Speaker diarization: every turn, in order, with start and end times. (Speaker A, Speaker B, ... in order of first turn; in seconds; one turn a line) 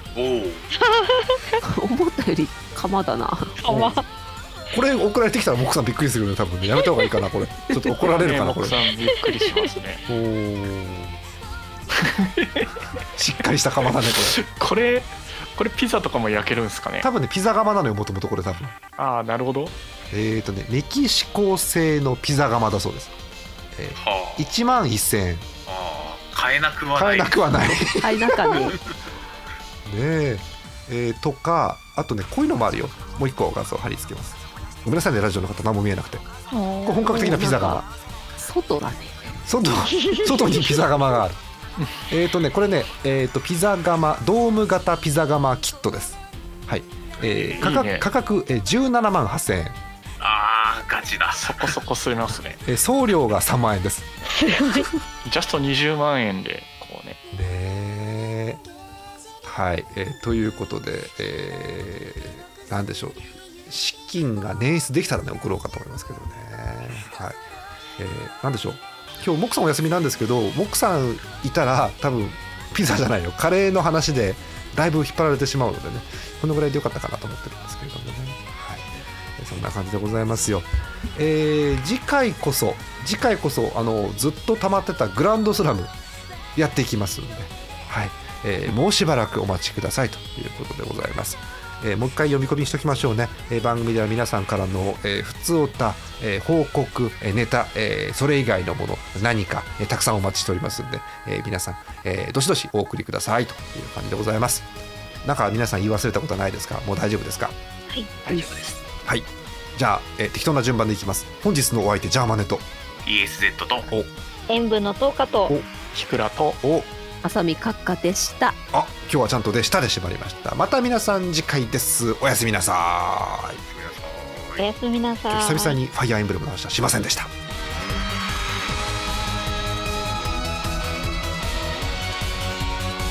Speaker A: 0.1-0.7
Speaker B: 0.8-1.6
Speaker C: 1.6-3.6
Speaker B: 3.6-4.0
Speaker D: 3.7-4.0
Speaker D: 4.7-8.8
Speaker E: 8.0-10.0
Speaker D: 10.1-11.2
Speaker E: 11.9-12.8
Speaker D: 13.2-14.4
Speaker E: 14.0-17.1
Speaker D: 17.0-18.8
Speaker E: 19.0-19.8
Speaker D: 20.1-23.1
Speaker D: 23.7-25.5
Speaker A: 24.0-24.5
Speaker A: 25.7-27.4
Speaker D: 27.0-28.7
Speaker C: 28.0-28.8
Speaker D: 29.9-36.2
Speaker B: 36.5-37.1
Speaker D: 36.8-37.9
Speaker C: 37.0-37.9
Speaker C: 38.4-39.4
Speaker D: 39.5-41.4
Speaker D: 42.1-49.8
Speaker E: 47.3-48.1
Speaker A: 50.2-51.6
Speaker E: 51.3-52.6
Speaker D: 52.7-54.1
Speaker B: 54.3-54.9
Speaker E: 55.2-57.2
Speaker D: 57.3-58.6
Speaker D: 59.4-67.4
Speaker D: 68.0-85.9
Speaker D: 86.5-104.7
Speaker D: 105.2-107.5
Speaker E: 108.2-108.8
Speaker C: 108.3-108.6
Speaker D: 109.1-112.7
Speaker A: 113.0-113.9
Speaker B: 114.5-115.5
Speaker E: 115.9-116.6
Speaker D: 116.6-116.9
Speaker C: 117.2-118.6
Speaker D: 118.7-123.6
Speaker A: 123.7-124.6
Speaker B: 124.6-125.8
Speaker D: 125.3-127.3